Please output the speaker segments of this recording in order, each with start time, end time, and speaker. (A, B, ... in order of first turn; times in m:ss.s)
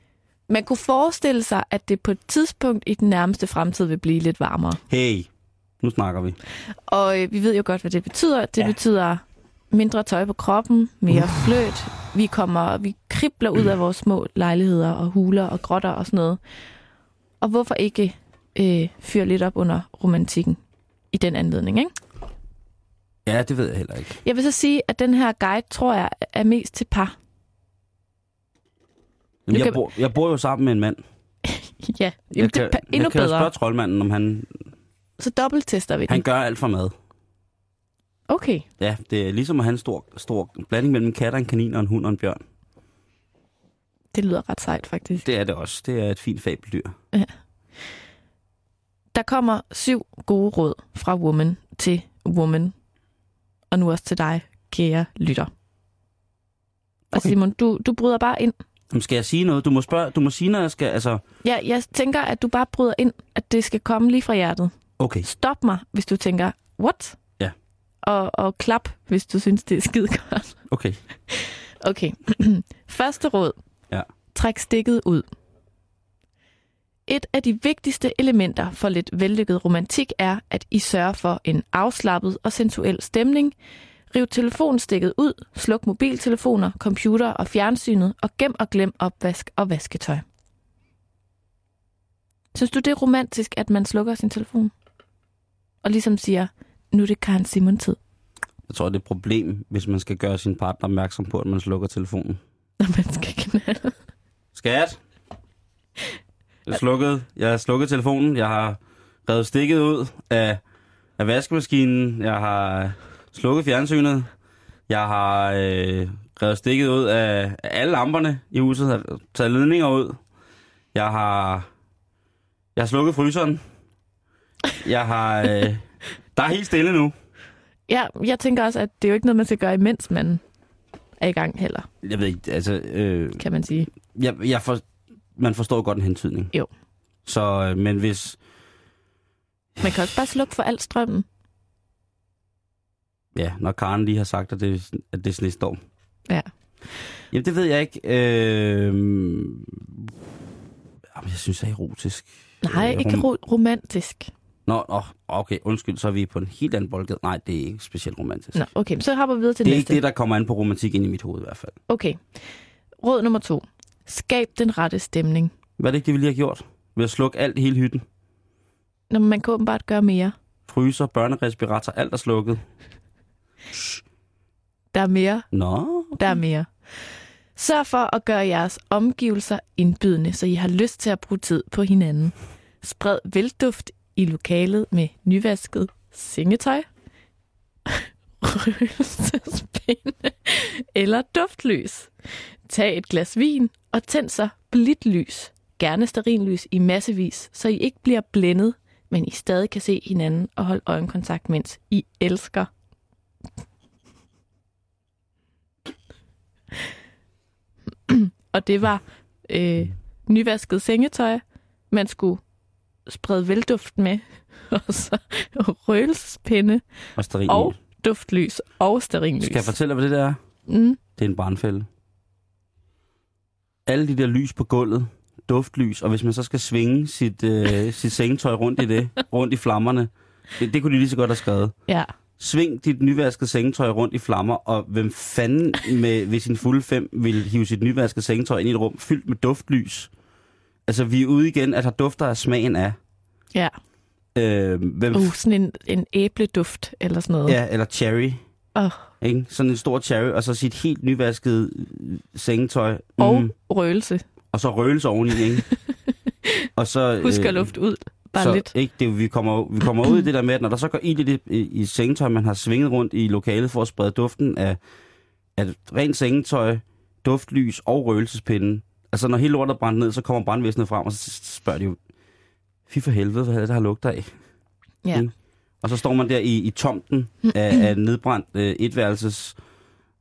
0:00.5-0:04.8 A
0:04.9-0:05.3 B
0:05.8-0:06.4 B
0:06.9-0:16.4 A
0:11.1-0:11.4 B
0:17.4-0:20.6 A
0:21.1-0:21.9 A
0:23.2-0:24.2 B
0:24.2-0:27.1 A
0:29.5-0:31.0 B
0:29.5-0:29.8 A
0:31.4-0:33.5 A
0:32.3-0:34.6 B
0:35.2-0:36.2 A
0:36.1-0:36.9 B
0:38.3-0:38.6 A
0:38.8-0:42.4 B
0:44.1-0:45.2 A
0:45.2-0:46.9 B
0:49.1-0:52.7 A
0:53.7-0:55.5 A
0:57.1-0:58.5 A
0:58.9-1:01.2 B
1:01.4-1:04.7 A
1:05.0-1:05.3 B
1:05.2-1:07.2 A
1:08.0-1:10.6 A
1:10.7-1:11.0 B
1:11.3-1:13.6 A
1:14.3-1:15.2 A
1:17.1-1:23.5 A
1:24.1-1:30.2 A
1:32.5-1:34.7 A
1:35.8-1:38.0 A
1:38.7-1:42.4 B
1:42.8-1:44.0 A
1:44.5-1:45.0 B
1:46.7-1:50.6 B
1:51.2-1:54.3 B
1:54.9-2:00.2 B
2:00.9-2:01.7 B
2:02.8-2:03.6 B
2:04.8-2:07.1 B
2:07.9-2:10.4 A
2:11.2-2:11.9 A
2:12.0-2:13.4 B
2:13.4-2:13.9 A
2:14.0-2:14.8 B
2:15.4-2:16.5 B
2:17.2-2:18.4 B
2:19.8-2:21.2 A
2:23.3-2:25.8 B
2:27.3-2:30.1 B
2:31.1-2:33.3 B
2:32.6-2:34.3 A
2:34.7-2:38.6 B
2:38.5-2:40.0 A
2:39.6-2:41.8 B
2:41.9-2:42.2 A
2:43.0-2:45.5 A
2:45.8-2:48.0 B
2:49.1-2:50.3 A
2:50.7-2:52.6 B
2:53.7-2:54.0 B
2:54.9-2:55.4 A
2:55.5-2:56.3 B
2:56.2-2:56.7 A
2:57.6-3:06.8 A
3:07.9-3:12.1 A
3:12.7-3:22.7 A
3:28.1-3:32.4 A
3:33.1-3:36.8 A
3:37.2-3:37.8 B
3:37.5-3:39.7 A
3:39.4-3:40.4 B
3:40.7-3:41.0 A
3:41.2-3:41.9 B
3:43.8-3:51.7 B
3:52.4-4:00.1 B
4:00.9-4:03.0 B
4:04.3-4:05.3 B
4:05.1-4:07.6 A
4:07.5-4:08.4 B
4:08.7-4:09.1 A
4:09.2-4:13.5 B
4:13.2-4:14.2 A
4:14.5-4:15.6 B
4:16.8-4:17.7 B
4:17.2-4:18.7 A
4:18.4-4:24.8 B
4:25.6-4:32.0 B
4:32.9-4:34.3 B
4:35.1-4:39.6 B